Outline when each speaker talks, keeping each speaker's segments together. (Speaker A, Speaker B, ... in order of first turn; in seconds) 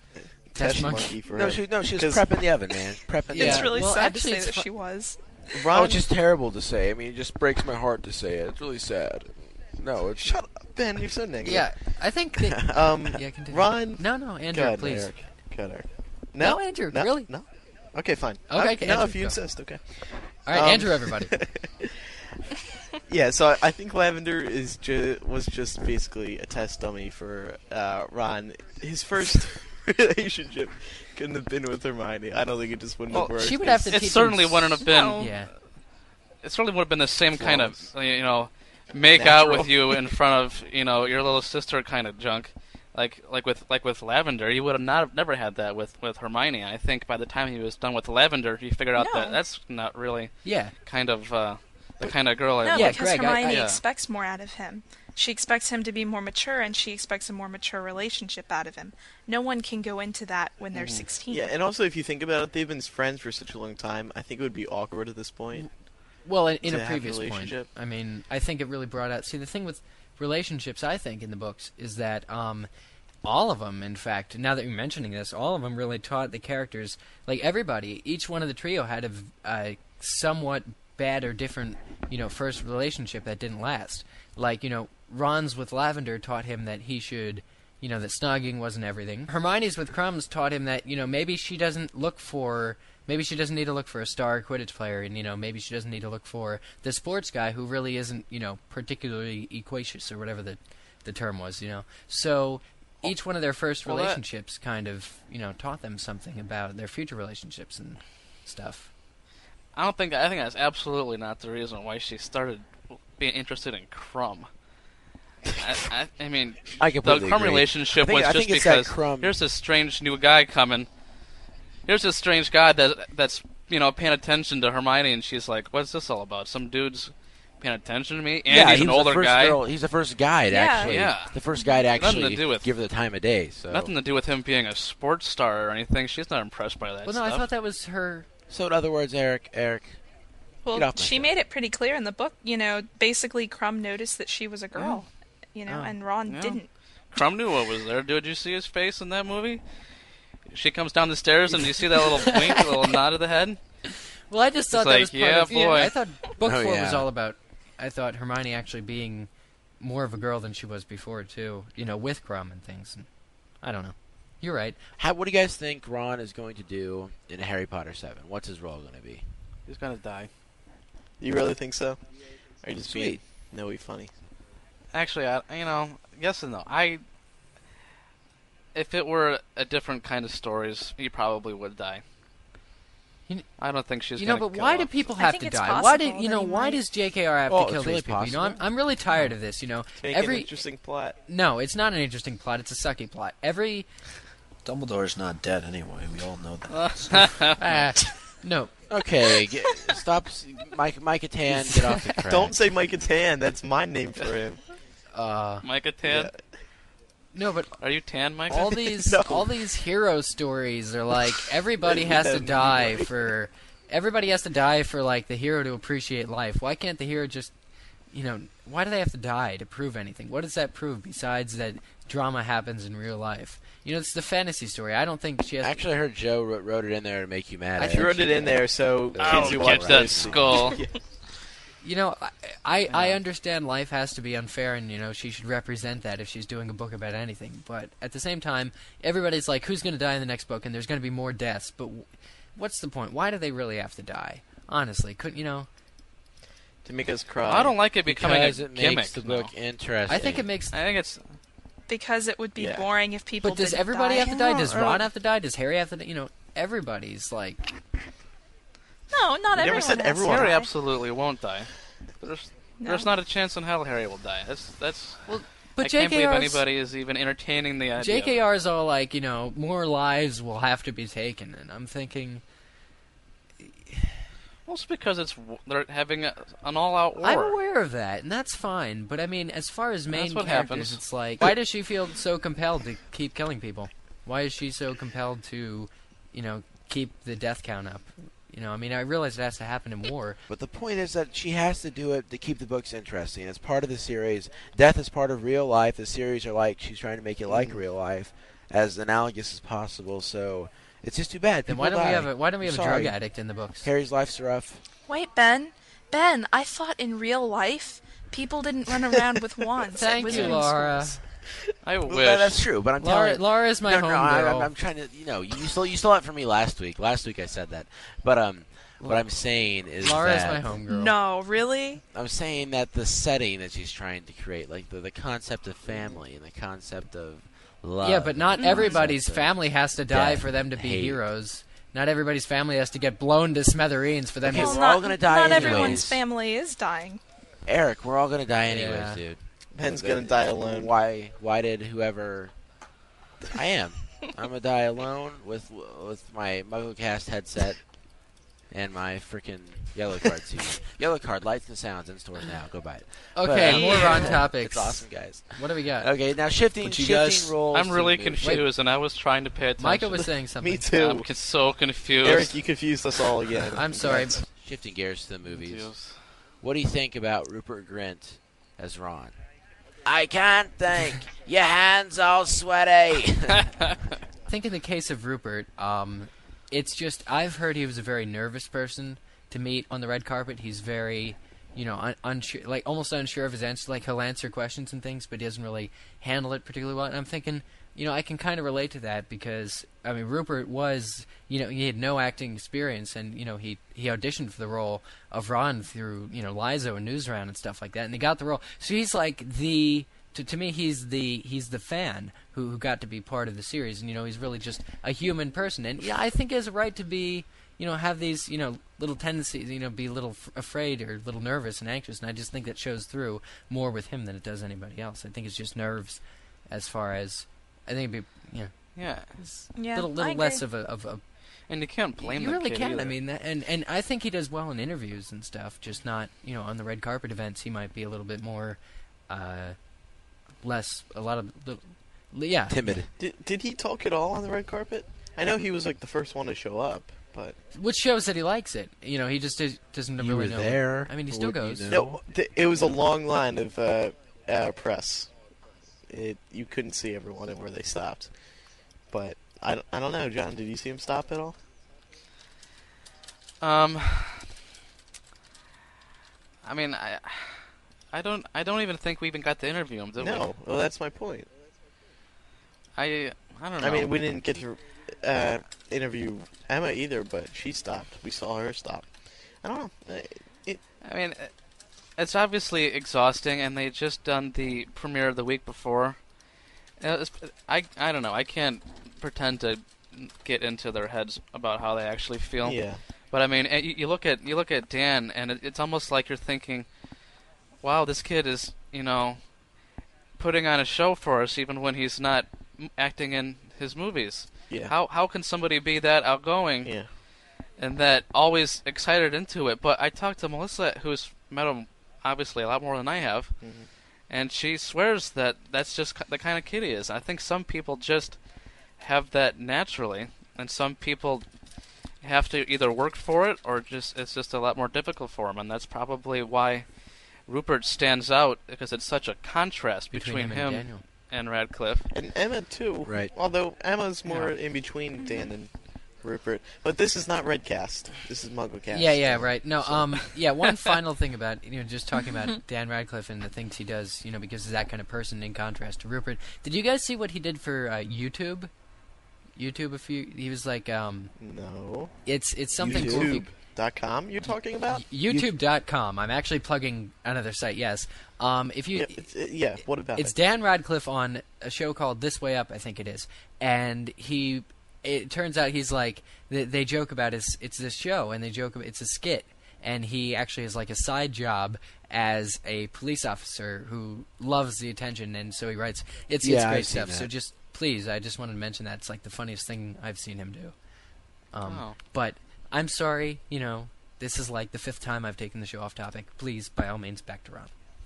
Speaker A: 0.5-2.3, 5.5-6.0, 10.2-11.7, 12.7-19.8, 20.5-21.9, 23.1-34.0, 39.1-40.0, 60.9-65.7, 66.6-67.7, 171.2-172.0, 172.6-174.1, 190.0-191.2, 202.3-204.6, 206.0-206.3, 208.5-209.5, 211.8-213.3, 227.9-231.0, 246.8-247.8, 252.6-252.9, 259.5-260.6, 297.5-297.8, 339.7-340.9, 360.6-361.3, 362.2-364.4, 433.2-437.6, 441.9-445.3, 446.1-448.3, 449.1-451.6, 460.2-461.5, 463.8-469.1, 469.6-470.8, 482.6-483.0, 503.6-503.9, 522.1-530.3, 541.4-542.1, 542.8-545.0, 548.9-550.4
Speaker B: 0.6-1.2, 3.3-4.7, 11.4-15.1, 16.4-17.3, 18.5-19.4, 20.5-21.3, 33.1-35.5, 50.5-50.7, 52.7-53.7, 66.2-72.7, 73.2-108.9, 137.1-138.3, 144.8-145.0, 145.7-145.9, 152.1-152.9, 153.9-159.3, 159.8-163.1, 163.6-164.8, 184.2-190.5, 191.3-193.9, 197.6-198.7, 201.5-202.2, 205.1-205.7, 207.3-207.8, 208.5-217.5, 218.1-225.8, 227.8-228.6, 231.8-245.7, 250.1-250.8, 253.4-257.6, 265.3-266.6, 268.0-272.4, 277.2-290.4, 301.7-303.9, 309.9-311.2, 313.0-314.7, 319.0-319.3, 320.0-321.2, 328.0-334.9, 335.5-336.1, 338.7-339.2, 353.3-356.1, 358.4-358.7, 359.8-360.9, 363.8-364.4, 374.5-421.2, 422.2-429.8, 430.6-433.0, 437.8-441.9, 520.1-521.0, 528.9-538.7, 539.6-541.3, 542.3-543.5, 544.9-549.2, 550.2-570.7, 571.5-577.7
Speaker C: 1.3-3.8, 5.7-10.3, 37.4-37.7, 116.8-119.4, 128.5-133.9, 138.5-140.0, 140.7-141.4, 156.4-157.1, 165.0-169.3, 172.8-173.2, 187.5-188.6, 198.9-202.6, 225.6-230.8, 248.1-250.5, 290.5-303.2, 303.8-304.8, 312.1-320.7, 322.1-331.2, 334.4-336.2, 337.7-342.5, 343.5-358.6, 364.4-366.1, 366.6-369.4, 370.0-373.7, 432.7-433.1, 440.2-442.2, 523.0-523.3, 542.8-543.4, 545.3-545.5, 566.4-567.3
Speaker D: 3.4-5.2, 34.8-35.3, 49.0-49.4, 52.6-61.5, 130.5-131.0, 131.5-131.8, 140.7-146.7, 185.1-186.8, 251.9-254.8, 259.1-260.7, 262.8-263.1, 305.1-311.1, 320.9-322.0, 328.6-329.0, 334.5-337.2, 419.8-420.6
Speaker E: 33.9-35.5, 36.4-50.3, 50.9-53.8, 60.8-61.0, 103.8-104.2, 109.7-114.5, 115.6-120.9, 121.9-129.6, 130.8-131.4, 131.9-132.7, 133.7-137.5, 146.2-149.6, 150.5-153.6, 154.7-155.9, 169.7-170.3, 174.9-177.0, 178.8-182.0, 183.6-184.9, 196.7-197.9, 205.6-206.3, 207.8-208.7, 229.2-230.8, 232.9-233.2, 247.4-249.5, 250.7-251.2, 254.6-255.0, 259.6-261.7, 262.2-268.4, 274.7-277.6, 280.1-281.0, 311.8-312.6, 353.6-354.3, 357.7-360.3, 360.9-362.6, 365.5-366.2, 419.0-419.4, 421.7-423.2, 453.6-454.5, 456.6-460.5, 463.0-464.1, 471.0-471.5, 472.2-476.2, 477.0-486.9, 487.8-489.8, 490.4-497.0, 497.8-503.6, 504.3-508.4, 509.0-511.5, 512.2-516.9, 517.4-522.1, 524.3-524.5, 571.6-572.0
Speaker F: 194.7-197.5, 356.9-357.5